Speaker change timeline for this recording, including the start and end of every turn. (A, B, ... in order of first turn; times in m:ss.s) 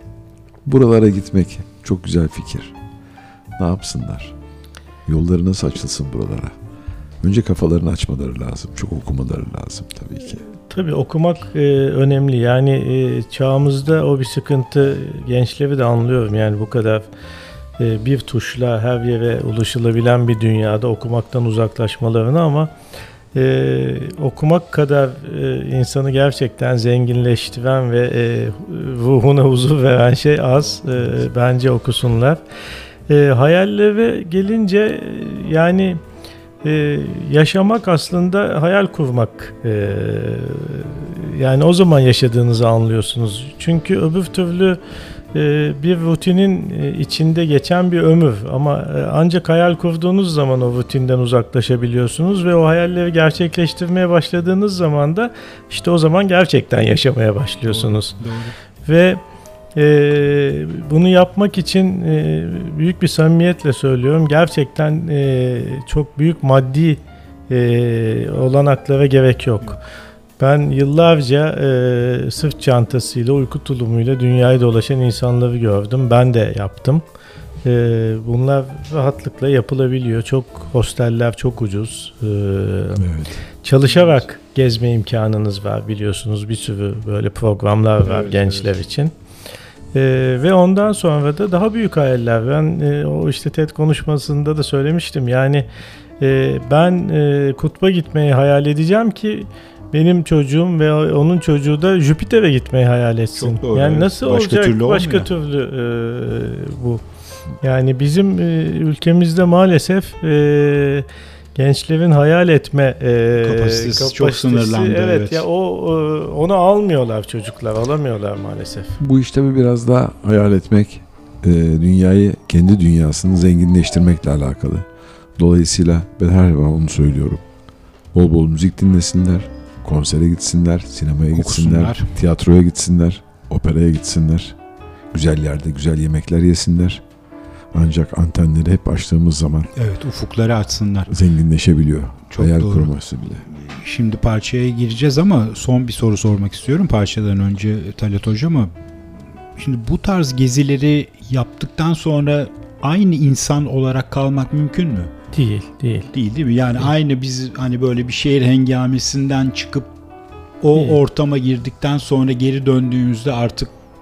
0:00.6-0:02.7 A
0:03.6-0:04.3 A
0:05.0-0:06.6 A
0:07.2-0:10.4 A
0:10.5-0:17.1 B
0:17.8-0:22.7 B
0:23.3-0:32.4 B
0:33.1-0:36.0 B
0:36.6-0:44.8 B
0:45.3-0:58.2 B
0:57.6-0:58.5 C
0:58.8-0:59.2 B
0:59.7-1:09.8 B
1:10.4-1:17.0 B
1:17.6-1:23.0 B
1:23.0-1:23.4 A
1:23.6-1:29.1 B
1:23.9-1:24.2 C
1:28.0-1:28.7 C
1:29.9-1:35.7 B
1:36.2-1:47.0 B
1:43.3-1:45.3 C
1:47.6-1:59.0 B
1:53.4-1:55.4 C
1:59.0-2:07.4 A
2:08.1-2:14.6 A
2:11.3-2:12.2 C
2:15.1-2:17.0 A
2:17.7-2:19.7 A
2:19.8-2:21.2 C
2:21.1-2:23.4 A
2:22.3-2:22.9 C
2:23.4-2:28.7 C
2:29.6-2:35.1 C
2:35.3-2:36.1 B
2:36.1-2:39.9 C
2:40.6-2:43.7 C
2:40.7-2:41.0 B